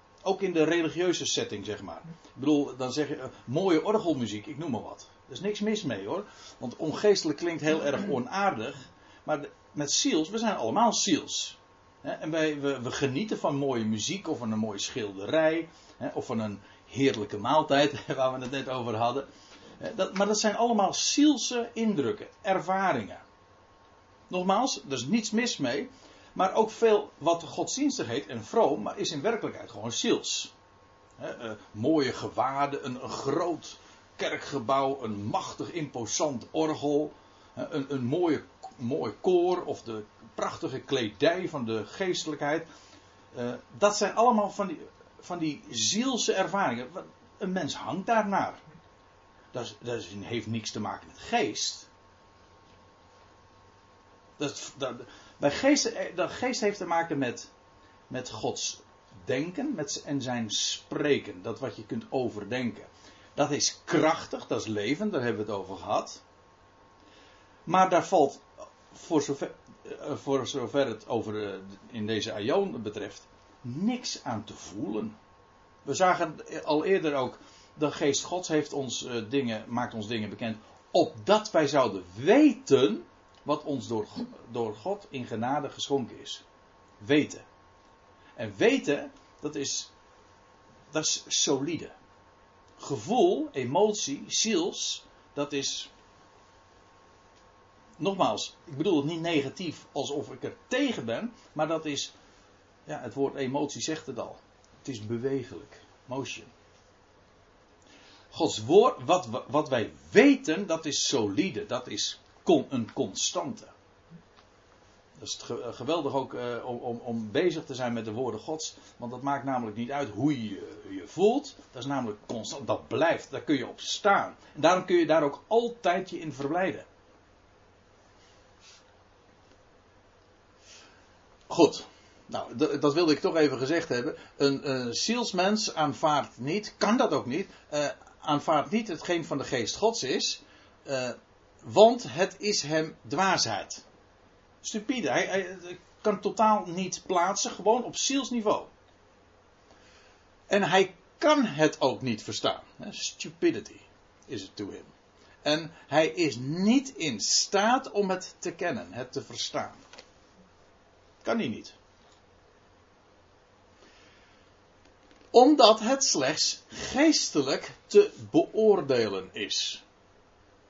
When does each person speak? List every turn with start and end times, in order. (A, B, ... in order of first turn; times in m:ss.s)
0:00.2-0:19.3 A
0:19.8-0:23.2 A
0:24.3-0:30.5 A
0:31.2-0:42.7 A
0:43.3-0:48.6 A
0:49.5-0:51.9 A
0:54.4-0:57.5 A
0:58.1-1:06.2 A
1:07.7-1:15.2 A
1:15.8-1:26.4 A
1:27.0-1:27.5 A
1:28.4-1:29.9 A
1:30.9-1:32.0 A
1:32.8-1:35.9 A
1:38.0-1:42.1 A
1:42.9-1:46.5 A
1:48.3-1:53.7 A
1:55.2-2:06.9 A
2:11.5-2:23.8 A
2:24.6-2:28.7 A
2:30.5-2:34.9 A
2:35.4-2:39.8 A
2:41.2-2:41.8 A
2:45.3-2:49.8 A